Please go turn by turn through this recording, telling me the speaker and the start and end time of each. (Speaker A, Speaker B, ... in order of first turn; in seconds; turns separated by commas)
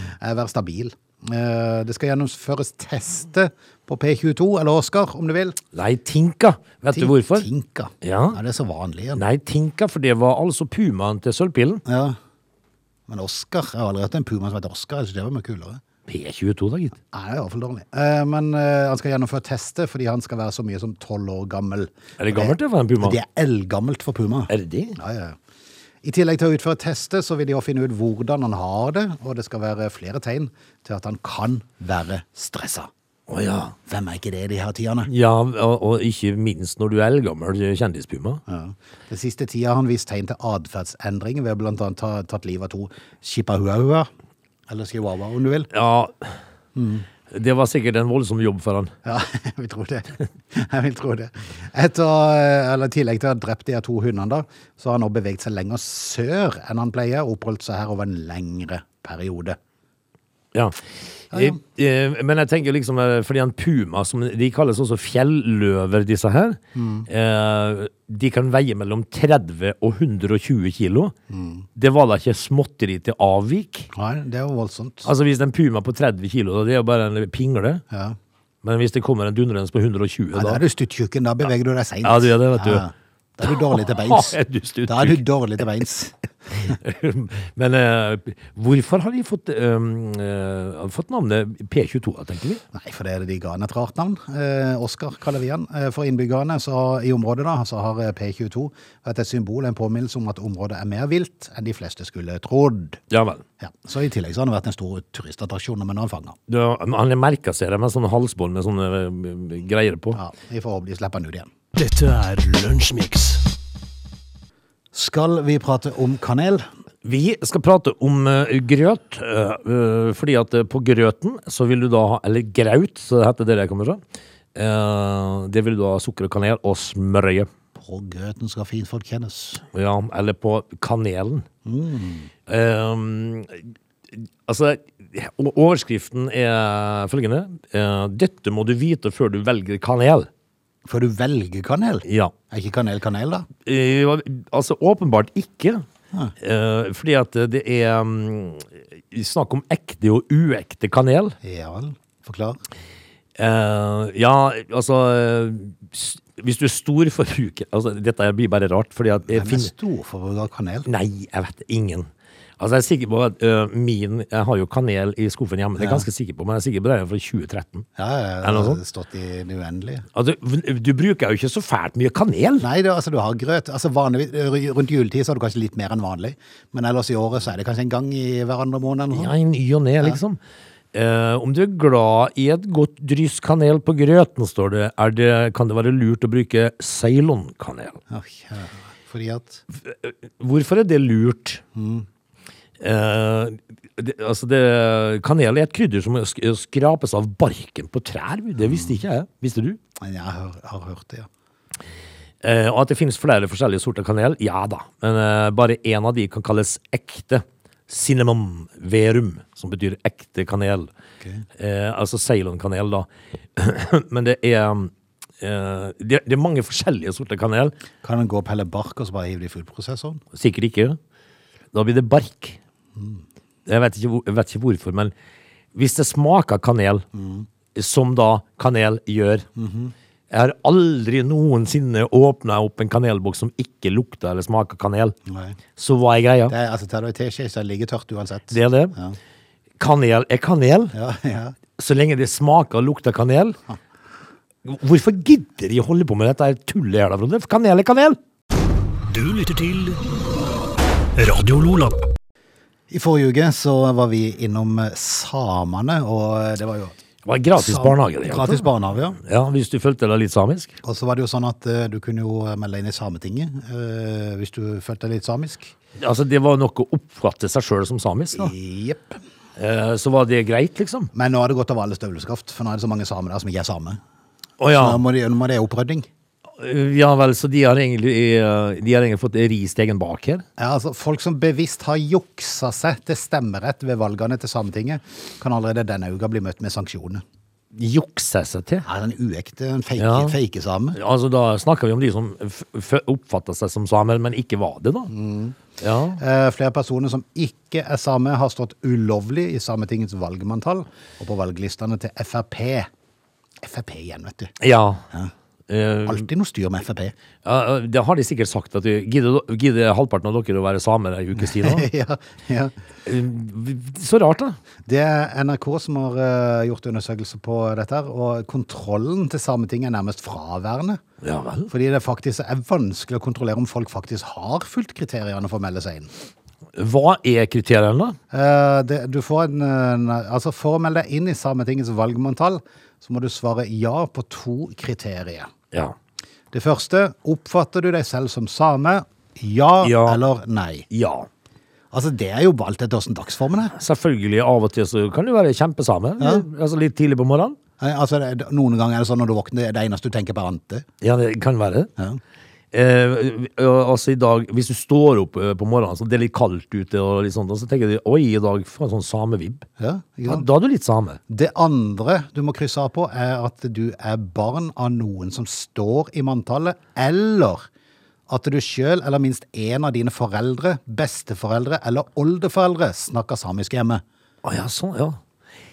Speaker A: 0.2-5.6, Speaker B: 5.7-7.5, Speaker A: 6.9-9.2, Speaker B: 8.0-8.4, Speaker B: 9.2-11.8, Speaker A: 11.8-12.2, Speaker A: 13.1-15.8, Speaker B: 16.1-16.9, Speaker A: 17.1-25.4, Speaker B: 22.2-23.2, Speaker B: 24.5-25.0, Speaker A: 26.0-32.9, Speaker B: 33.3-33.7, Speaker A: 33.9-35.1, Speaker B: 35.1-38.4, Speaker A: 38.5-44.1, Speaker A: 44.7-45.7, Speaker B: 45.7-46.4, Speaker A: 46.7-47.0, Speaker B: 47.3-48.9, Speaker A: 49.0-59.6, Speaker A: 61.3-61.6, Speaker B: 61.3-71.1, Speaker A: 66.7-67.1, Speaker A: 71.3-71.7, Speaker B: 71.8-73.9, Speaker A: 73.9-75.1, Speaker B: 75.0-77.8, Speaker A: 77.9-78.2, Speaker B: 78.6-80.6, Speaker A: 80.3-84.3, Speaker B: 82.0-82.8, Speaker B: 83.4-85.2, Speaker A: 84.9-86.7, Speaker B: 86.6-92.6, Speaker A: 92.7-103.0, Speaker B: 103.1-103.4, Speaker A: 103.6-106.4, Speaker B: 106.5-110.2, Speaker A: 110.1-111.5, Speaker C: 111.7-113.4, Speaker A: 114.9-116.7, Speaker B: 117.0-124.0, Speaker B: 124.5-127.5, Speaker A: 127.8-129.6, Speaker B: 129.7-131.4, Speaker A: 131.6-132.3, Speaker B: 132.5-133.6, Speaker B: 134.4-140.3, Speaker A: 140.8-143.5, Speaker B: 142.1-142.3, Speaker B: 143.6-145.8, Speaker B: 146.4-151.4, Speaker A: 151.4-152.6, Speaker B: 153.4-159.7, Speaker A: 159.3-160.9, Speaker B: 160.8-162.1, Speaker B: 162.6-167.9, Speaker A: 165.8-166.0, Speaker A: 168.0-170.1, Speaker B: 168.4-168.8, Speaker B: 170.1-172.6, Speaker A: 172.6-179.3, Speaker B: 179.1-180.4, Speaker B: 180.9-188.0, Speaker A: 188.1-189.6, Speaker B: 189.8-191.6, Speaker A: 191.7-192.1, Speaker B: 192.8-199.8, Speaker A: 198.6-199.0, Speaker A: 200.0-201.3, Speaker B: 202.4-210.9, Speaker B: 211.6-217.7, Speaker A: 218.0-220.2, Speaker B: 220.3-221.0, Speaker B: 221.7-222.6, Speaker A: 222.9-223.2, Speaker B: 223.7-225.1, Speaker B: 225.7-227.0, Speaker A: 227.1-227.5, Speaker B: 227.7-229.4, Speaker A: 229.6-229.9, Speaker B: 230.3-235.1, Speaker A: 235.3-235.6, Speaker B: 235.8-236.5, Speaker A: 236.5-239.2, Speaker B: 238.5-238.9, Speaker B: 239.8-240.9, Speaker A: 240.9-241.5, Speaker B: 241.8-243.6, Speaker B: 244.6-248.2, Speaker C: 249.1-250.0, Speaker C: 251.2-252.0, Speaker A: 252.9-257.0, Speaker B: 257.2-258.7, Speaker A: 257.5-259.2, Speaker B: 259.2-260.8, Speaker A: 260.8-265.7, Speaker B: 266.0-268.5, Speaker A: 268.3-269.2, Speaker B: 269.6-271.1, Speaker A: 271.1-274.0, Speaker B: 274.6-275.0, Speaker A: 274.7-276.1, Speaker B: 276.6-280.4, Speaker A: 280.6-287.2, Speaker B: 287.7-288.8, Speaker A: 288.8-291.0, Speaker B: 290.0-290.4, Speaker B: 290.9-295.1, Speaker A: 295.1-295.6, Speaker B: 295.8-296.2, Speaker A: 296.2-302.9, Speaker A: 303.6-304.5, Speaker B: 304.6-305.0, Speaker B: 305.7-306.3, Speaker A: 306.1-307.1, Speaker B: 307.4-311.9, Speaker A: 311.4-312.7, Speaker B: 313.1-314.6, Speaker A: 314.9-321.0, Speaker B: 321.2-321.7, Speaker A: 321.7-326.1, Speaker B: 326.8-328.2, Speaker A: 328.3-335.5, Speaker A: 336.5-340.9, Speaker B: 339.8-340.2, Speaker B: 340.9-341.3, Speaker A: 341.9-343.7, Speaker B: 343.8-347.6, Speaker A: 346.2-346.4, Speaker A: 347.8-350.9, Speaker B: 351.0-351.9, Speaker B: 352.7-359.6, Speaker A: 359.8-360.4, Speaker B: 360.3-361.2, Speaker A: 361.3-367.6, Speaker A: 368.3-374.0, Speaker B: 374.4-375.2